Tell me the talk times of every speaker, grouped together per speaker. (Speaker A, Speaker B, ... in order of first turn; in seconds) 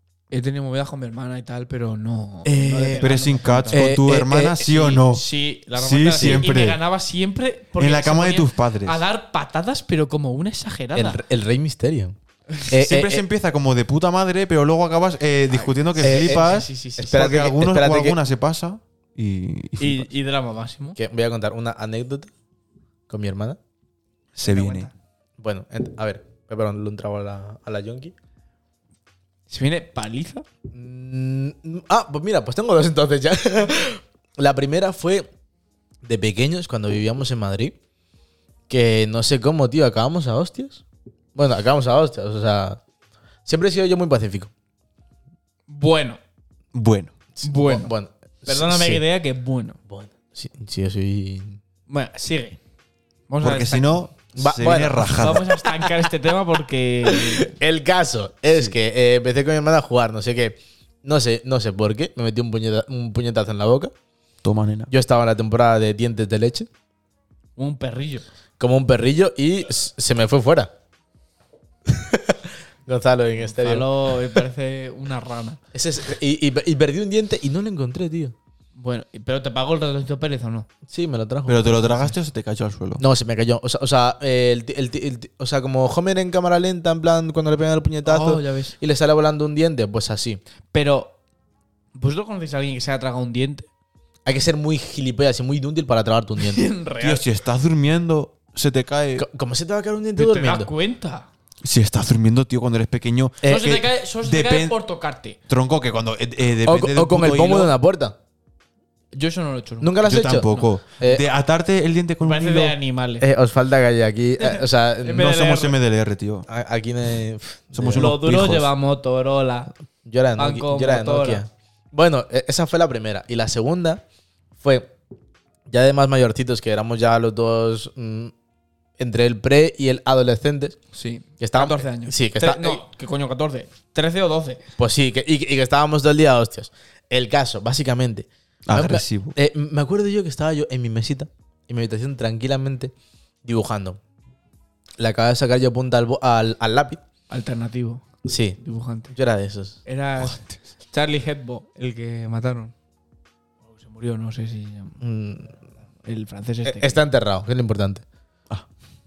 Speaker A: 0.3-3.9, 4.7-11.2, 15.5-17.3, 19.8-21.0, 24.4-24.9, 29.5-30.4, 45.7-46.2, 47.4-47.9, 48.5-49.8, 51.9-52.6, 53.3-54.0, 55.1-57.5, 67.6-68.2, 73.5-75.6, 78.8-80.7, 81.9-82.1, 88.0-88.8, 90.7-91.1, 91.9-93.7, 96.4-97.2, 100.2-101.3, 103.4-105.4, 109.1-110.7, 112.2-113.3, 114.4-115.8, 118.0-119.7, 120.4-121.4, 130.9-134.6, 147.3-148.0, 148.6-149.1, 149.9-152.7, 153.7-155.0, 156.1-157.0
Speaker B: 2.4-3.0, 3.7-4.7, 10.9-12.2, 12.7-13.2, 16.0-18.2, 20.9-22.3, 23.1-23.6, 25.4-28.1, 30.7-35.3, 36.0-37.8, 38.7-40.8, 41.4-42.8, 43.5-44.5, 47.4-49.0, 49.9-51.6, 54.4-55.9, 57.1-63.9, 64.9-66.7, 68.6-70.7, 71.9-73.9, 75.7-78.3, 80.9-81.8, 83.0-90.4, 94.3-96.7, 99.2-100.7, 106.6-108.2, 109.8-110.5, 113.2-115.3, 116.5-118.1, 120.0-124.0, 124.6-124.9, 125.7-128.3, 129.0-130.8, 131.4-132.8, 134.8-142.9, 143.4-144.0, 145.0-147.0, 148.2-148.6, 149.1-149.8, 155.0-155.5, 156.6-158.0
Speaker C: 3.0-5.2, 5.8-6.8, 7.8-9.0, 12.7-20.1, 24.4-24.9, 46.7-47.1, 53.4-55.5, 64.4-64.9, 81.5-83.0, 97.0-99.3, 101.6-104.8, 105.5-107.7, 110.0-112.8, 115.1-116.5, 117.7-118.7, 138.7-139.3